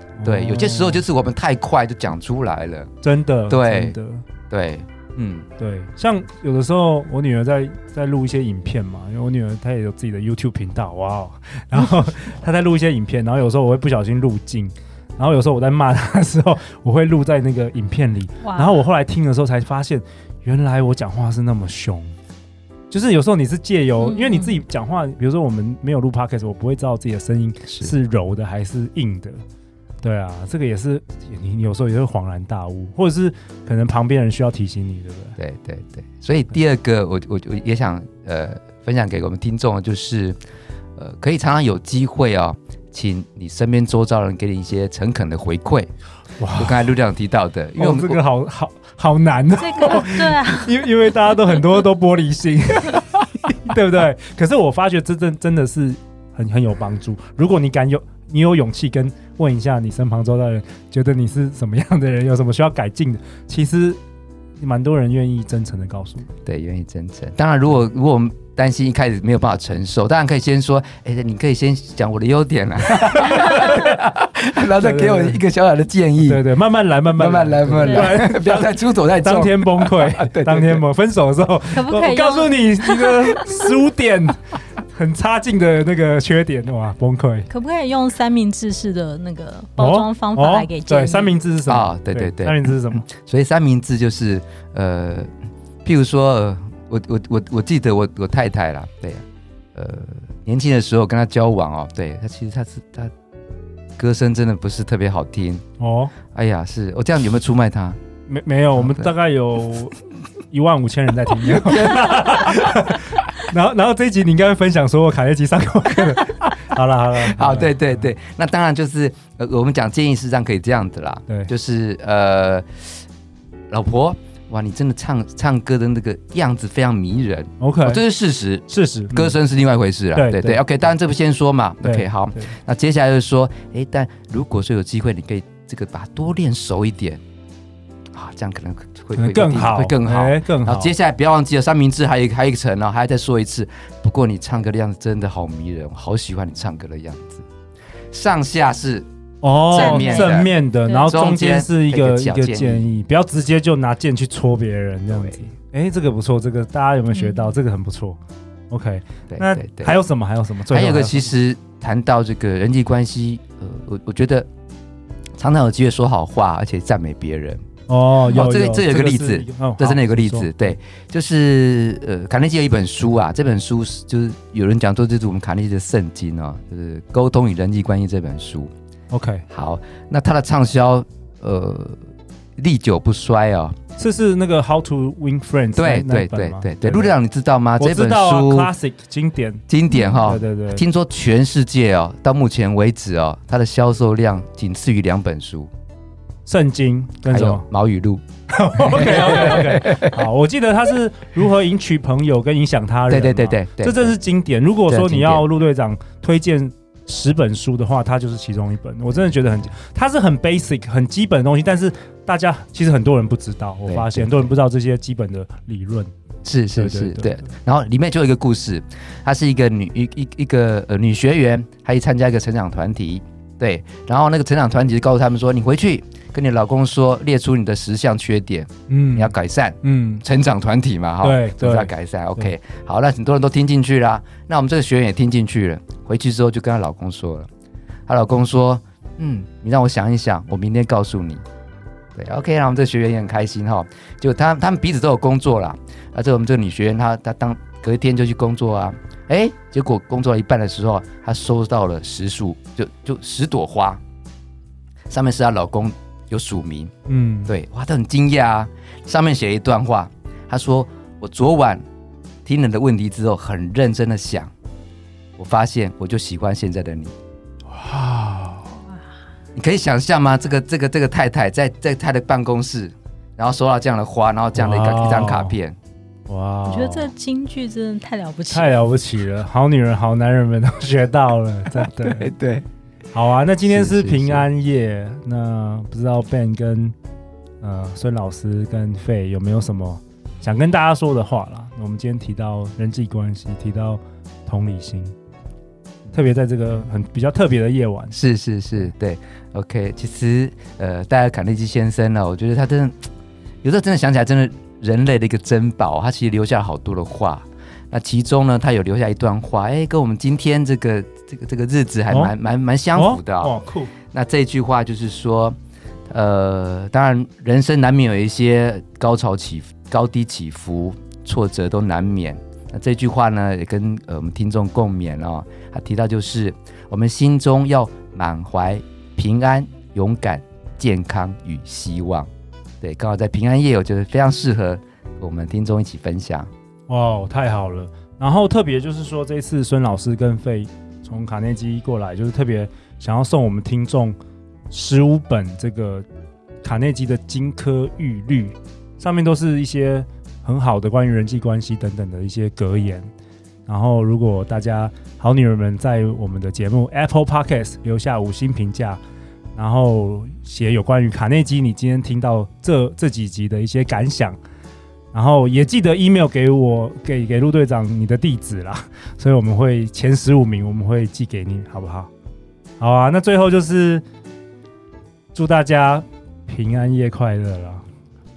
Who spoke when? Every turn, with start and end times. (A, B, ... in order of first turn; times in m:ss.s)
0:00.2-0:01.0 A
0:00.2-0:02.9 B
0:03.0-0:04.2 A
0:03.5-0:04.0 B
0:04.5-0:05.5 B
0:05.6-0:22.1 A
0:18.4-0:18.8 C
0:22.9-0:29.4 A
0:24.0-0:24.6 C
0:27.6-0:27.9 B
0:30.0-0:35.4 A
0:35.4-0:40.4 B
0:41.0-0:45.9 B
0:46.4-0:46.9 A
0:46.5-0:48.2 B
0:47.8-1:04.0 A
0:49.6-0:50.8 C
1:04.6-1:06.3 A
1:06.5-1:16.4 B
1:13.4-1:13.9 A
1:14.7-1:15.4 A
1:16.2-1:27.5 A
1:17.1-1:20.8 B
1:17.8-1:18.2 C
1:21.7-1:23.4 C
1:27.5-1:31.3 C
1:29.8-1:33.1 A
1:31.7-1:35.3 B
1:35.8-1:39.2 B
1:39.8-1:43.1 B
1:44.0-1:45.6 B
1:45.8-1:46.1 A
1:46.3-1:48.0 B
1:48.3-1:50.0 A
1:48.8-1:49.1 B
1:50.5-1:58.1 A
1:51.4-1:52.5 B
1:57.2-2:03.0 B
2:03.7-2:17.2 B
2:07.6-2:08.0 A
2:08.7-2:09.4 A
2:10.1-2:10.6 A
2:11.8-2:12.6 A
2:18.1-2:27.5 B
2:19.2-2:20.9 A
2:28.1-2:29.1 B
2:29.4-2:38.2 A
2:29.6-2:30.5 B
2:29.7-2:31.1 C
2:31.1-2:32.9 B
2:35.1-2:35.5 B
2:37.1-2:37.6 C
2:38.7-2:41.3 A
2:39.3-2:40.0 B
2:40.7-2:44.5 B
2:45.4-2:47.6 B
2:47.9-2:50.5 A
2:48.3-2:58.7 B
2:59.1-2:59.4 A
2:59.5-3:02.0 B
3:02.6-3:03.8 B
3:04.0-3:07.1 A
3:05.8-3:08.7 B
3:07.8-3:10.8 A
3:09.7-3:15.7 B
3:16.5-3:17.7 A
3:17.3-3:18.2 B
3:18.5-3:36.1 A
3:18.8-3:20.3 B
3:23.1-3:24.2 B
3:24.9-3:25.5 B
3:33.9-3:34.5 B
3:36.4-3:57.5 B
3:36.7-3:37.5 A
3:48.9-3:50.2 A
3:51.2-3:52.5 A
3:58.1-4:01.4 B
4:02.2-4:14.0 B
4:15.1-4:16.9 B
4:17.1-4:17.6 A
4:17.5-4:21.8 B
4:22.4-4:24.5 B
4:25.4-4:27.2 B
4:27.7-4:28.8 A
4:29.6-4:35.8 B
4:34.6-4:35.6 A
4:36.3-4:37.1 A
4:36.7-4:38.8 C
4:38.5-4:42.3 A
4:41.8-4:42.7 B
4:43.1-4:47.0 A
4:43.6-4:44.5 B
4:47.6-4:55.2 A
4:56.1-4:58.2 A
4:58.1-5:03.1 B
5:03.6-5:13.5 B
5:12.1-5:12.4 A
5:12.9-5:13.9 A
5:14.1-5:15.6 B
5:16.1-5:32.3 B
5:32.8-5:36.5 B
5:36.9-5:44.2 A
5:44.7-5:46.1 A
5:46.6-5:53.1 A
5:53.7-5:59.0 A
5:59.6-6:04.4 A
6:05.1-6:12.1 A
6:12.8-6:14.0 A
6:15.3-6:17.8 A